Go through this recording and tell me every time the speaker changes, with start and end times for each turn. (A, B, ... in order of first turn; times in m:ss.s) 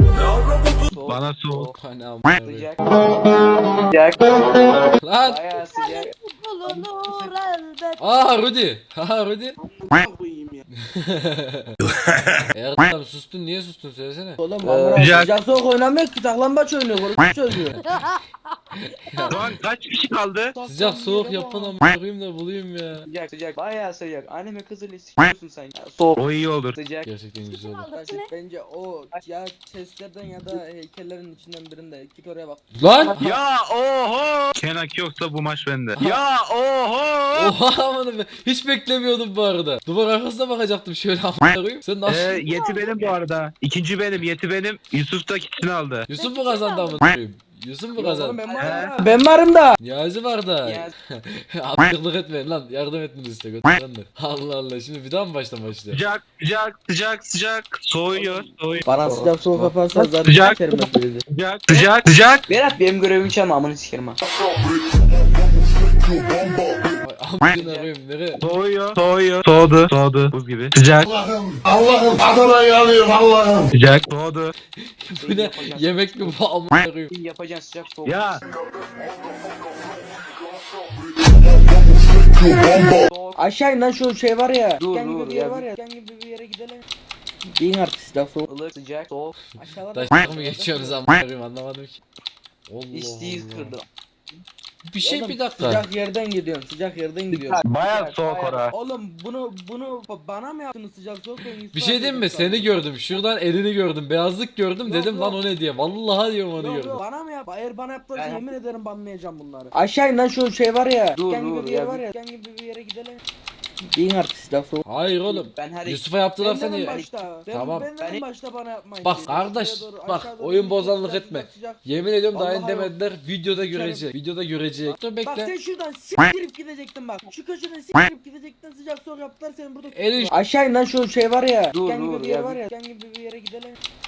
0:00.8-0:01.8 A
0:01.1-0:01.7 B
0:01.8-0:02.7 C
0:02.4-0:06.1 A
0:05.0-0:05.4 C
0:05.8-0:08.3 D
0:08.0-0:09.6 C
0:10.9-0:11.7 C
0:12.5-0:15.1 C
0:14.4-0:17.8 E
0:15.0-0:15.3 B
0:17.9-0:18.2 D
0:18.8-0:19.6 C
0:19.3-0:20.6 B
0:20.6-0:23.1 C
0:20.6-0:21.4 E
0:23.1-0:27.1 A
0:26.2-0:26.8 B
0:27.0-0:28.0 C
0:27.4-0:28.3 D
0:27.9-0:32.7 E
0:32.8-0:33.2 C
0:33.2-0:37.5 B
0:37.4-0:42.4 C
0:42.1-0:46.1 B
0:42.3-0:43.0 D
0:46.1-0:48.4 C
0:46.2-0:47.0 D
0:48.0-0:49.8 E
0:48.4-0:48.8 A
0:48.6-0:48.9 B
0:49.8-0:56.0 C
0:50.6-0:51.0 A
0:55.9-0:58.9 B
0:58.1-0:58.5 A
0:58.8-1:01.2 E
0:59.0-0:59.3 A
1:00.2-1:02.5 B
1:02.5-1:04.2 A
1:07.0-1:08.4 C
1:07.5-1:07.9 A
1:08.4-1:11.1 B
1:13.7-1:14.5 B
1:15.0-1:17.1 C
1:15.2-1:16.4 A
1:17.1-1:18.4 A
1:18.0-1:18.4 B
1:23.0-1:23.4 A
1:23.4-1:26.8 E
1:24.8-1:25.7 A
1:27.5-1:28.5 E
1:28.5-1:29.4 A
1:29.6-1:31.0 E
1:29.9-1:32.0 C
1:32.7-1:33.8 C
1:32.9-1:33.9 A
1:34.9-1:35.8 C
1:35.0-1:37.6 E
1:37.3-1:38.6 A
1:37.6-1:38.7 B
1:38.7-1:42.7 E
1:41.7-1:47.0 C
1:44.9-1:45.4 E
1:46.6-1:53.2 E
1:48.2-1:48.5 A
1:51.1-1:52.0 A
1:53.8-1:54.8 E
1:54.9-1:57.0 C
1:55.3-1:56.0 A
1:56.4-2:02.9 E
1:57.5-1:57.9 C
1:59.0-2:05.5 C
2:03.6-2:04.1 E
2:05.1-2:13.8 E
2:09.9-2:10.3 C
2:11.7-2:12.6 A